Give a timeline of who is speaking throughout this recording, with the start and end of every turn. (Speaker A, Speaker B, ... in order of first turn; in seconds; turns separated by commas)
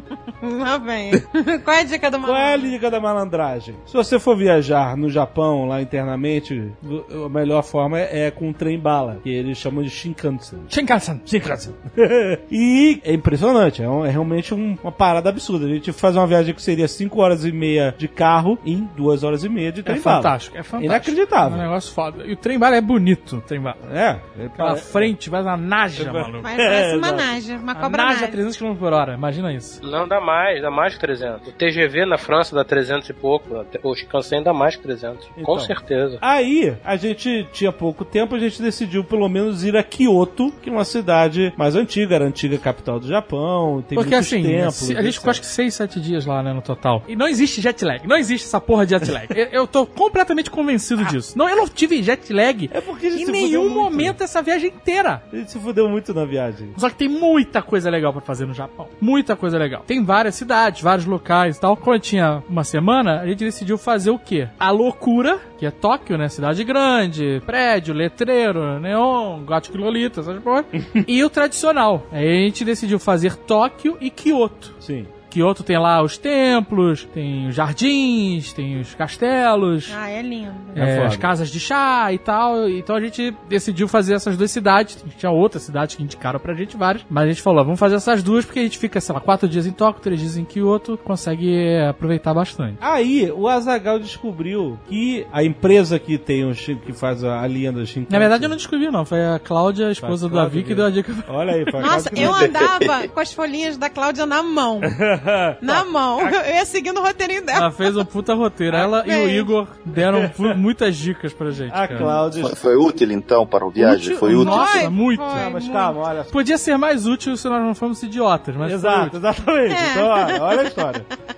Speaker A: 0.4-2.7, Speaker B: 2.2-10.7, Speaker C: 10.7-11.7, Speaker B: 11.9-21.6, Speaker C: 19.9-23.8, Speaker B: 23.8-25.1, Speaker C: 24.6-26.5, Speaker B: 25.9-27.4, Speaker A: 26.4-28.4, Speaker C: 27.7-29.8, Speaker D: 29.8-36.2, Speaker B: 35.4-45.4, Speaker C: 43.9-55.2, Speaker B: 52.7-54.2, Speaker B: 55.3-56.8, Speaker C: 56.8-74.8, Speaker B: 74.8-75.1, Speaker C: 75.3-79.9, Speaker A: 79.9-80.8, Speaker B: 80.7-81.3, Speaker C: 80.8-92.8, Speaker B: 92.8-98.6, Speaker C: 98.1-102.0, Speaker B: 100.0-102.5, Speaker A: 101.8-105.0, Speaker E: 102.2-103.1, Speaker B: 104.8-106.4, Speaker A: 105.6-108.0, Speaker C: 107.5-112.2, Speaker A: 108.7-109.5, Speaker B: 109.9-110.6, Speaker B: 111.7-112.6, Speaker E: 112.3-114.9, Speaker C: 113.8-115.5, Speaker A: 114.2-116.0, Speaker B: 115.3-116.4, Speaker C: 116.3-119.2, Speaker B: 118.6-121.1, Speaker A: 119.7-120.4